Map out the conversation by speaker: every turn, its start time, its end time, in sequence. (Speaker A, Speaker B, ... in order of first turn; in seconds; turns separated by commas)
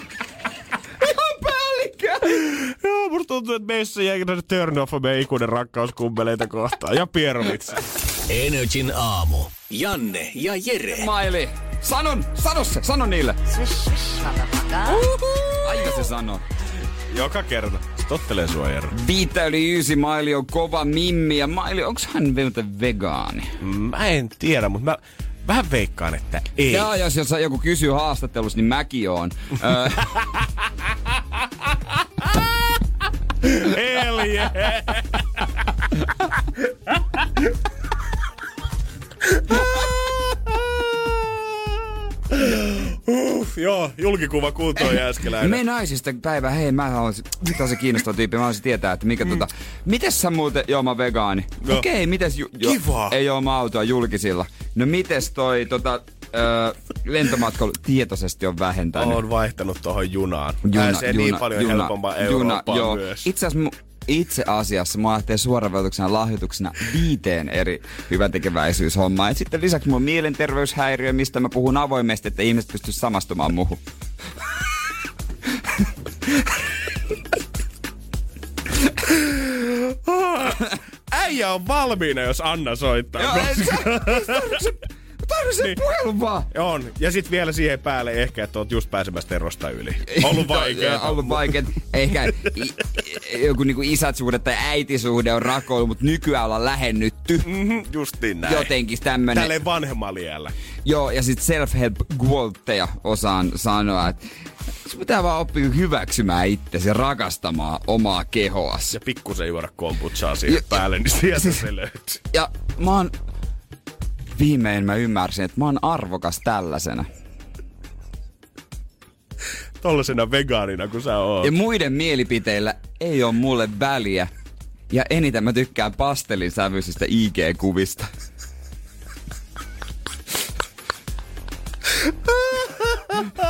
Speaker A: 1.0-2.5, Speaker B: 2.3-7.8, Speaker C: 8.3-11.1, Speaker A: 10.9-13.4, Speaker B: 14.9-15.9, Speaker A: 15.6-16.4, Speaker B: 17.1-18.9, Speaker A: 18.9-23.6, Speaker B: 23.6-26.9, Speaker A: 26.7-30.2, Speaker B: 33.4-36.1, Speaker B: 39.3-41.6, Speaker B: 42.3-45.6, Speaker A: 44.8-59.2, Speaker B: 52.6-53.2, Speaker B: 59.0-63.3, Speaker A: 60.6-73.8, Speaker B: 79.1-84.6, Speaker A: 83.2-86.5, Speaker B: 86.5-91.6, Speaker A: 90.1-97.5, Speaker B: 97.4-98.7, Speaker A: 98.4-99.5, Speaker B: 99.3-100.5, Speaker A: 100.8-104.2, Speaker A: 104.8-109.0, Speaker B: 108.9-112.2, Speaker A: 112.3-113.1, Speaker A: 114.3-117.1, Speaker B: 119.8-121.5, Speaker A: 121.4-124.3, Speaker A: 124.9-128.1, Speaker B: 132.3-133.3